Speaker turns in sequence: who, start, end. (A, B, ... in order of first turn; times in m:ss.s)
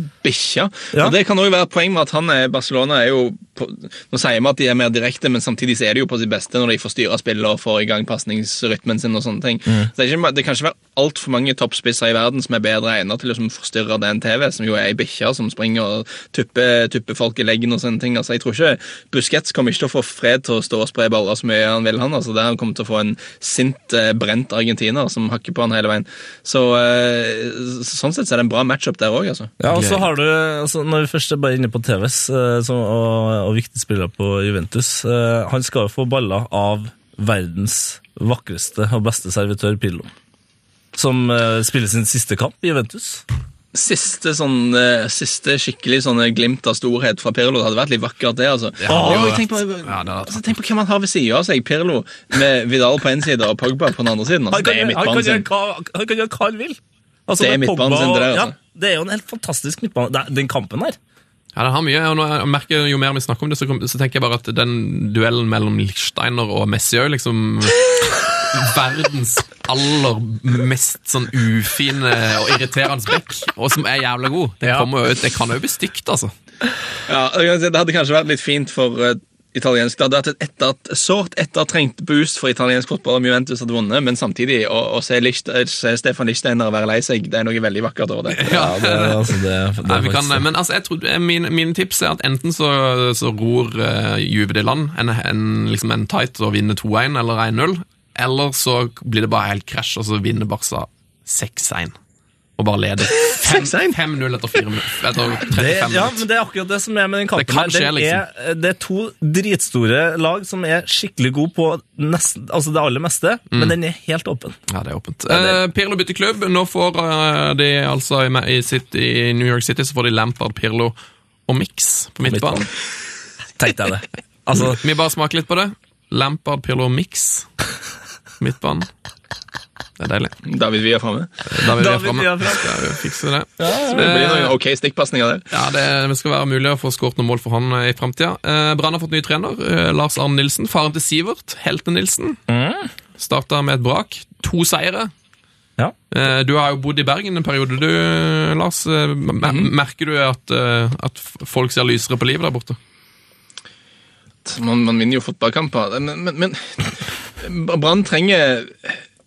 0:00.2-0:29.5 A
0:29.6-0:40.1 B
0:29.7-0:30.1 C
0:41.0-0:43.2 B
0:43.7-0:55.5 A
0:48.8-0:50.4 C
0:48.9-0:49.4 B
0:54.5-1:01.0 B
0:57.4-0:58.6 A
1:01.6-1:16.3 C
1:17.1-1:28.6 A
1:28.3-1:42.0 C
1:28.5-1:30.4 B
1:42.6-1:46.2 C
1:43.3-1:44.0 A
1:45.5-1:54.6 B
1:47.4-1:48.2 C
1:54.7-2:01.0 C
1:55.3-1:55.6 B
2:01.5-2:02.7 C
2:02.3-2:02.7 B
2:03.6-2:04.8 B
2:04.6-2:07.5 C
2:08.4-2:08.9 C
2:10.0-2:10.3 C
2:10.4-2:11.4 A
2:11.5-2:14.5 C
2:11.8-2:13.0 B
2:13.6-2:14.1 B
2:13.9-2:15.5 A
2:15.5-2:22.4 C
2:22.5-2:22.9 B
2:23.2-2:25.1 C
2:26.1-2:32.8 C
2:29.5-2:29.7 A
2:34.4-2:39.0 A